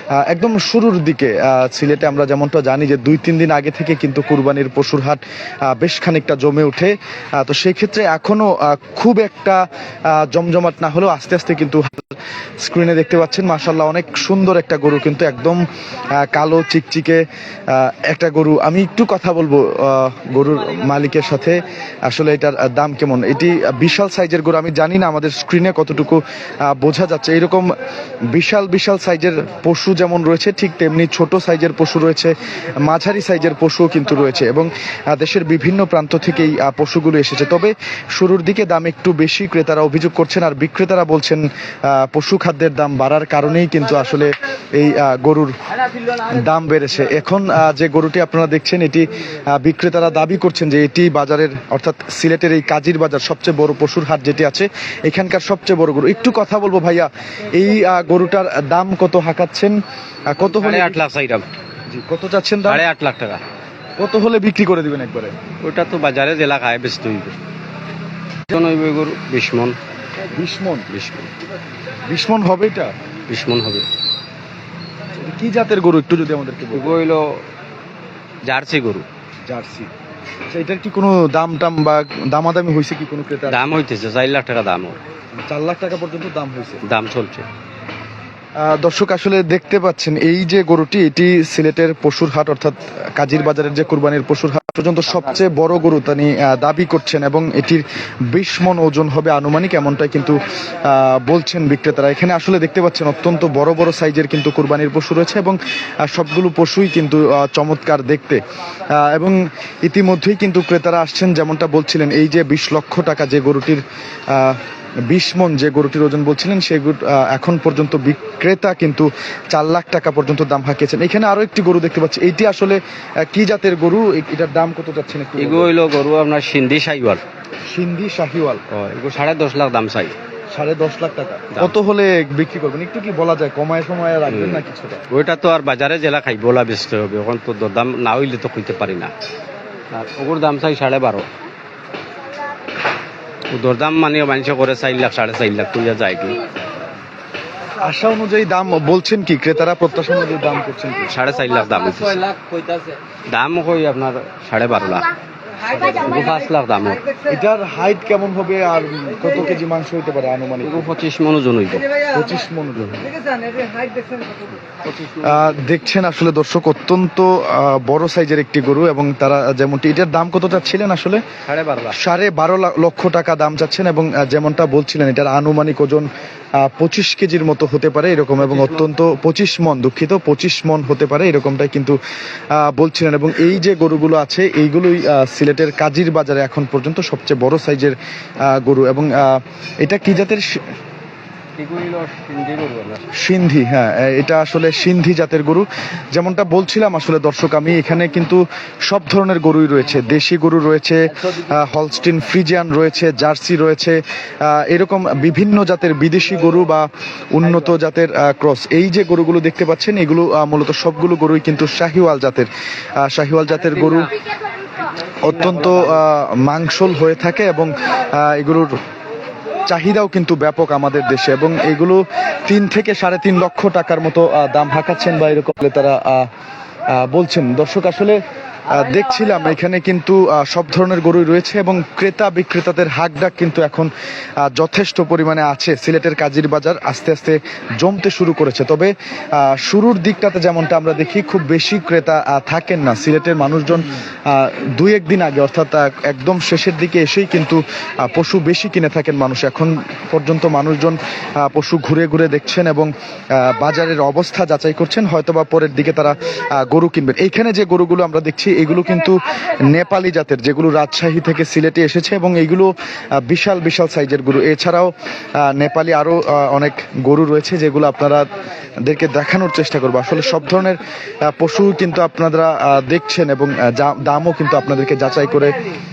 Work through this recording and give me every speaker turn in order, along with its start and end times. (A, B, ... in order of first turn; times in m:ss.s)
0:00.2-0:12.1 A
0:12.6-0:15.6 A
0:16.2-0:27.7 A
0:28.3-0:45.5 A
0:46.4-0:59.7 A
1:00.3-1:01.0 A
1:00.4-1:01.4 B
1:01.9-1:02.8 A
1:02.7-1:03.4 B
1:04.0-1:05.3 A
1:05.6-1:07.4 B
1:08.5-1:09.8 B
1:10.3-1:10.9 A
1:10.9-1:11.3 B
1:12.1-1:12.9 A
1:13.3-1:13.8 B
1:15.2-1:17.0 A
1:16.7-1:17.2 B
1:18.4-1:19.0 B
1:19.5-1:19.9 A
1:20.5-1:23.7 A
1:23.5-1:25.0 B
1:25.5-1:26.8 A
1:26.8-1:27.4 B
1:28.6-1:48.4 A
1:49.0-1:54.6 A
1:55.1-2:05.7 A
2:05.4-2:07.2 B
2:07.7-2:08.6 A
2:08.7-2:10.1 B
2:10.5-2:15.0 A
2:14.3-2:19.1 B
2:19.9-2:21.2 B
2:23.5-2:26.4 B
2:27.8-2:31.1 A
2:31.1-2:32.3 B
2:33.3-2:35.1 B
2:35.7-2:36.3 A
2:36.0-2:37.0 B
2:37.3-2:40.9 A
2:40.6-2:41.8 B
2:42.1-2:43.1 A
2:44.8-2:45.5 B
2:45.2-2:51.2 A
2:51.4-2:51.9 B
2:51.9-2:56.0 A
2:56.6-3:02.0 A
2:58.4-2:58.8 B
3:02.5-3:08.0 A
3:08.5-3:10.6 A
3:11.6-3:13.0 B
3:13.2-3:32.5 A
3:33.0-3:34.1 A
3:35.2-3:38.7 A
3:39.7-3:46.3 A
3:47.0-3:48.2 A
3:48.7-3:53.9 A
3:54.4-4:12.9 A
4:13.4-4:22.7 A
4:23.2-4:24.9 A
4:25.4-4:28.3 A
4:28.8-4:35.6 A